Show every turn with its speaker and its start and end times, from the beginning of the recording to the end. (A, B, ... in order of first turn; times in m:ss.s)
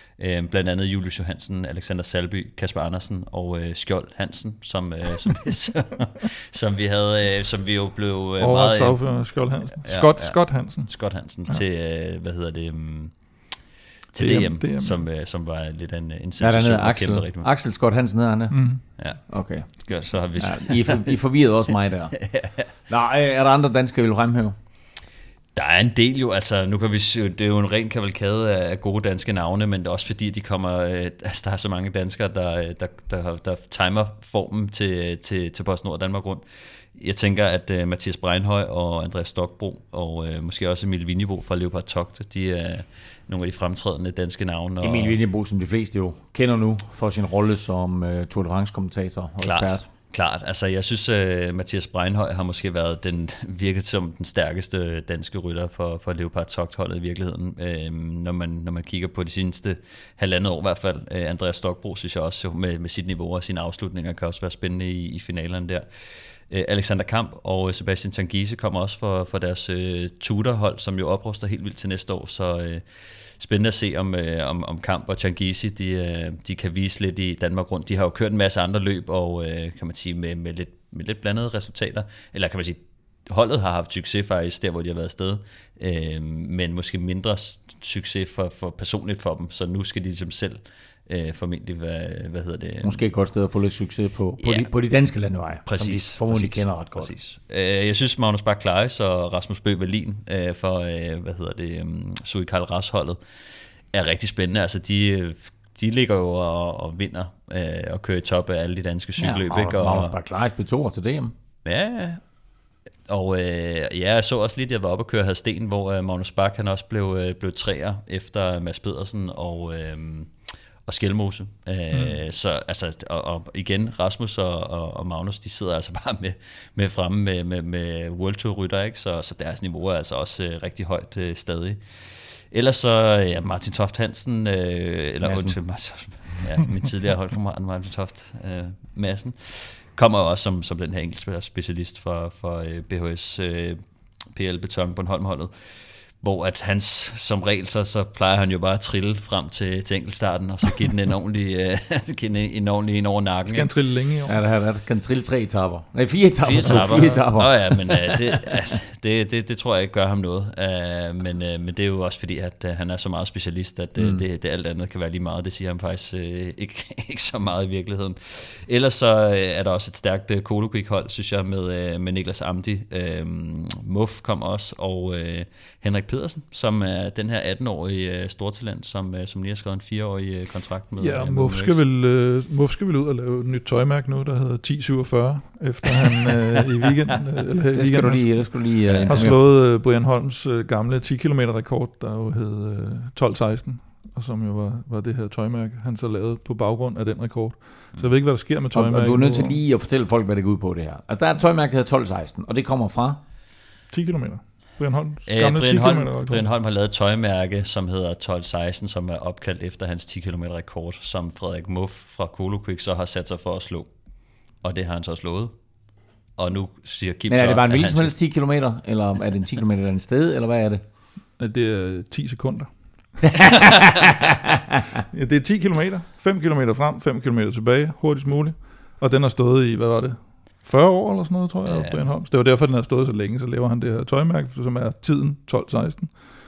0:00.1-0:09.2 A
0:08.4-0:10.9 B
0:09.8-0:13.1 A
0:14.1-0:17.5 A
0:14.2-0:15.0 B
0:16.4-0:18.6 C
0:18.5-0:18.8 B
0:19.0-0:21.2 A
0:19.3-0:22.2 C
0:22.2-0:22.7 A
0:22.9-0:24.6 C
0:25.6-0:45.2 A
0:44.8-0:49.9 C
0:49.4-1:12.8 A
1:13.4-1:33.0 A
1:32.8-1:37.1 C
1:34.4-1:34.7 A
1:35.7-1:43.2 A
1:43.9-1:50.2 A
1:49.2-1:51.3 C
1:51.6-1:52.2 A
1:53.1-2:00.3 A
2:00.9-2:23.8 A
2:01.9-2:02.2 B
2:15.2-2:15.6 C
2:24.3-2:33.7 A
2:33.5-2:34.4 B
2:34.3-2:38.5 C
2:36.4-3:01.8 A
2:44.0-2:44.2 C
3:01.0-3:19.6 B
3:07.7-3:09.4 C
3:08.9-3:09.4 A
3:18.7-3:23.2 C
3:23.9-3:26.5 B
3:25.3-3:33.9 A
3:34.6-3:35.5 A
3:36.4-3:38.1 A
3:37.3-3:40.8 C
3:41.4-3:42.8 B
3:43.2-3:44.4 C
3:45.1-3:56.1 B
3:51.7-3:52.0 A